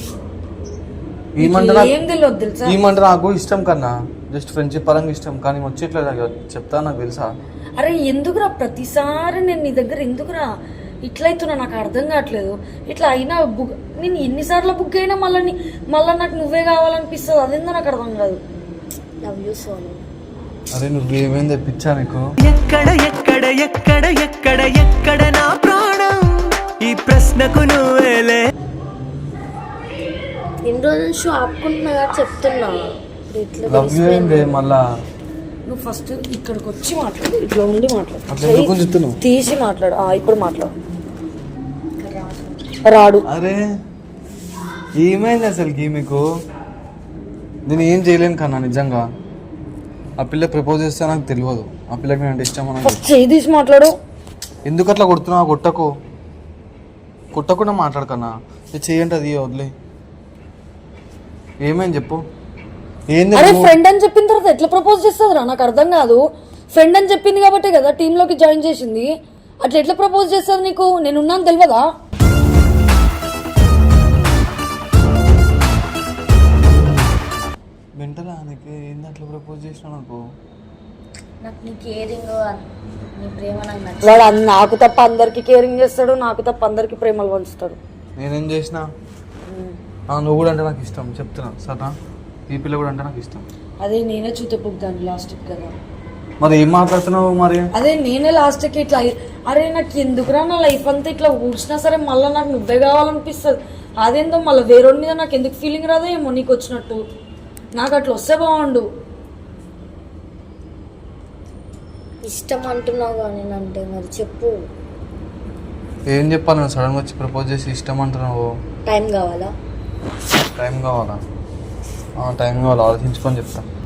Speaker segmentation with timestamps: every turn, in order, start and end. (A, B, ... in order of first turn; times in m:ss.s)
0:01.4-0:01.9 A
0:01.4-0:02.8 B
0:02.6-0:07.3 A
0:07.8-0:10.5 B
0:11.0-0:18.4 B
0:19.2-0:20.0 C
0:20.7-0:22.3 A
0:22.4-0:28.4 D
0:30.6-0:34.6 C
0:33.7-0:34.8 A
0:35.7-0:40.7 B
0:38.3-0:39.2 A
0:42.0-0:42.8 C
0:42.8-0:43.3 B
0:43.3-0:43.6 A
0:45.0-0:46.2 A
0:47.7-0:49.0 A
0:50.2-0:53.0 A
0:52.8-0:53.9 B
0:54.7-0:55.9 A
0:57.3-0:59.7 A
1:01.6-1:02.2 A
1:03.1-1:03.7 A
1:03.4-1:06.2 B
1:06.7-1:09.1 B
1:09.6-1:11.9 B
1:18.0-1:20.2 A
1:21.4-1:24.3 C
1:24.0-1:27.8 B
1:28.2-1:28.9 A
1:29.5-1:29.8 B
1:30.1-1:32.0 A
1:32.5-1:33.4 A
1:33.8-1:35.8 B
1:36.4-1:37.7 A
1:37.8-1:47.0 B
1:47.8-1:48.9 B
1:52.2-1:54.6 C
1:56.1-1:58.4 A
1:58.9-1:59.5 C
2:00.6-2:01.2 A
2:02.2-2:03.6 A